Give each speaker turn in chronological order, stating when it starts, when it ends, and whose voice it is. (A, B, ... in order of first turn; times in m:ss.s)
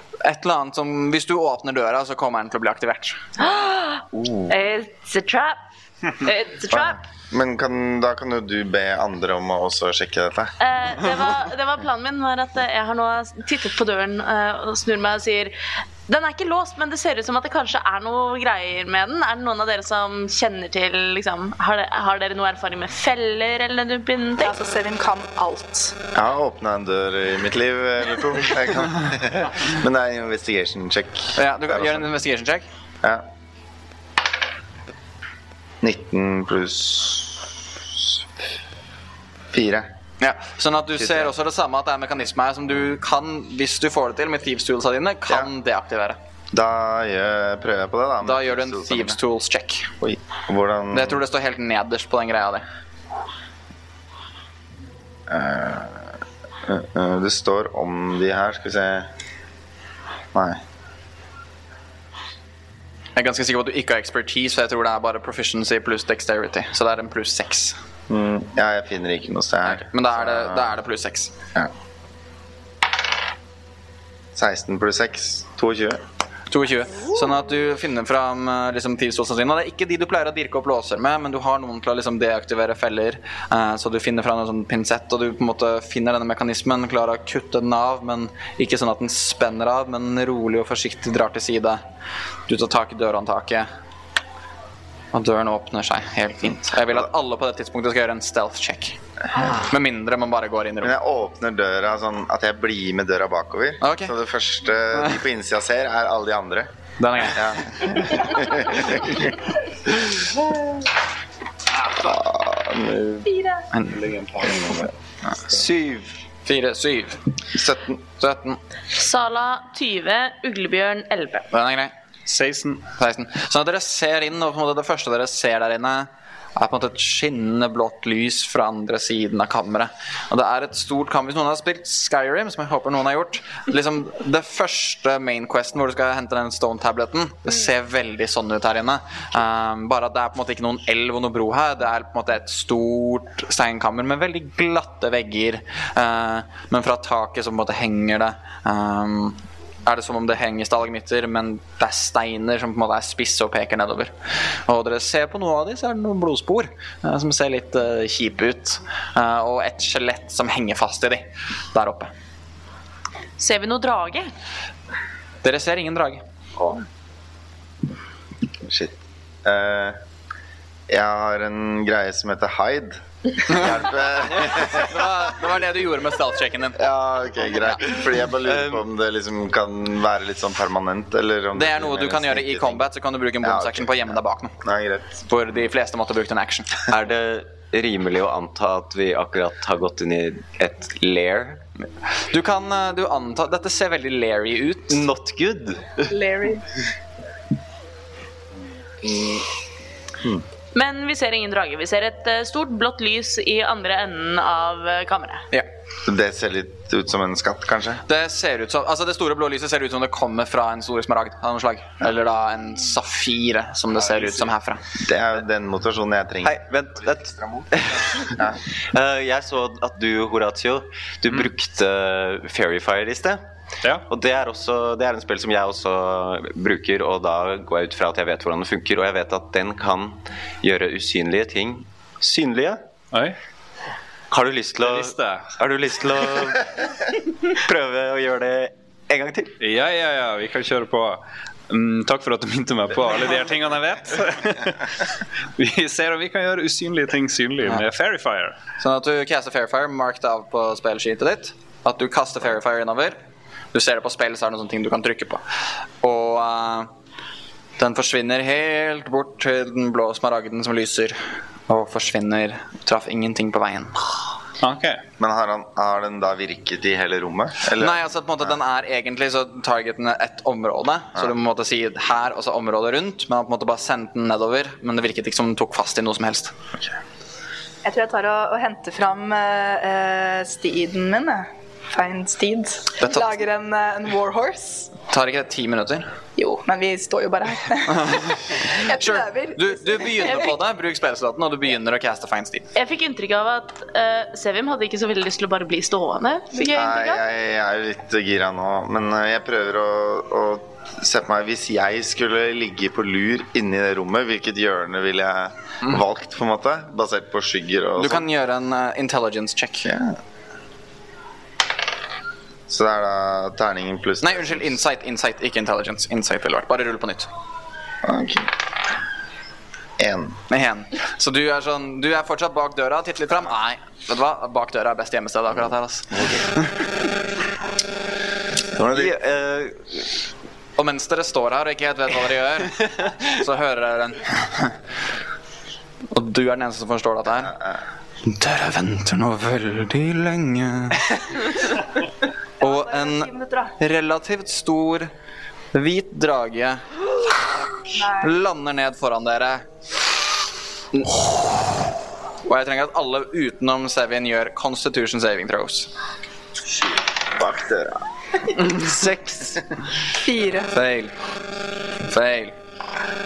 0:00.2-0:03.2 A
0:03.4-0:05.6 B
0:04.1-0:04.5 C
0:06.2-0:07.0 B
0:06.7-0:10.5 C
0:10.6-0:15.6 B
0:16.1-0:24.6 B
0:24.4-0:26.0 D
0:26.1-0:32.1 C
0:31.4-0:32.7 A
0:35.8-0:37.5 C
0:39.5-0:39.9 C
0:40.2-0:46.2 A
0:41.0-0:41.3 C
0:46.5-0:49.2 C
0:48.2-0:49.9 A
0:50.0-0:51.2 C
0:50.9-0:52.6 A
0:55.3-0:56.1 C
0:56.6-0:59.1 C
1:00.3-1:00.6 C
1:03.2-1:07.8 A
1:08.1-1:10.7 C
1:09.6-1:11.3 A
1:14.3-1:16.0 C
1:16.5-1:31.8 A
1:32.5-1:33.7 A
1:35.1-1:41.0 A
1:40.8-1:46.7 C
1:43.8-1:44.1 A
1:47.0-1:47.5 A
1:47.3-1:49.2 C
1:52.0-1:53.3 C
1:53.4-1:53.6 D
1:53.7-1:54.0 A
1:53.9-1:54.8 E
1:55.5-1:56.1 F
1:56.5-1:57.2 A
1:57.5-1:58.0 C
1:58.2-1:58.6 A
1:58.9-2:01.5 B
2:01.5-2:01.9 A
2:02.3-2:02.9 E
2:03.0-2:34.1 A
2:34.7-2:42.1 A
2:43.4-2:44.3 B
2:45.4-2:46.2 A
2:48.6-2:50.0 C
2:50.9-2:55.0 C
2:54.7-2:56.8 A
2:56.8-3:05.2 C
2:58.4-2:58.8 F
3:01.6-3:04.5 A
3:05.3-3:06.8 A
3:06.9-3:11.6 F
3:12.3-3:15.0 A
3:14.9-3:16.1 F
3:16.1-3:16.6 D
3:20.7-3:25.4 B
3:26.1-3:28.0 C
3:28.1-3:34.8 A
3:35.0-3:36.6 C
3:36.4-3:38.4 F
3:38.3-3:38.6 C
3:38.9-3:43.4 F
3:44.1-3:52.8 F
3:53.1-3:53.4 E
3:54.3-3:59.6 F
3:54.8-3:55.5 E
3:59.6-4:08.6 E
4:08.8-4:13.2 A
4:13.7-4:15.4 A
4:16.0-4:16.9 A
4:17.8-4:24.0 A
4:24.6-4:25.0 E
4:25.2-4:28.0 C
4:27.8-4:36.5 A
4:37.8-4:44.9 D
4:43.0-4:43.4 A
4:45.1-4:46.1 A
4:46.4-4:50.5 D
4:48.9-4:52.7 A
4:52.8-4:57.2 B
4:56.7-5:08.3 C
5:08.0-5:09.9 A
5:09.8-5:10.2 C
5:12.7-5:14.8 C
5:14.2-5:17.3 A
5:18.0-5:18.5 C
5:20.0-5:20.4 C
5:20.5-5:26.1 A
5:28.7-5:29.2 C
5:28.9-5:30.1 F
5:30.8-5:34.8 A
5:36.1-5:37.5 A
5:37.3-5:37.8 C
5:38.2-5:41.3 A
5:42.6-5:43.8 D
5:42.6-5:45.1 A
5:45.7-5:47.4 A
5:47.9-5:48.3 D
5:48.0-5:49.6 A
5:50.9-5:51.8 A
5:52.5-5:55.9 A
5:57.3-5:58.0 C
5:58.8-5:59.5 F
6:00.2-6:00.7 D
6:00.7-6:01.1 A
6:02.1-6:02.6 A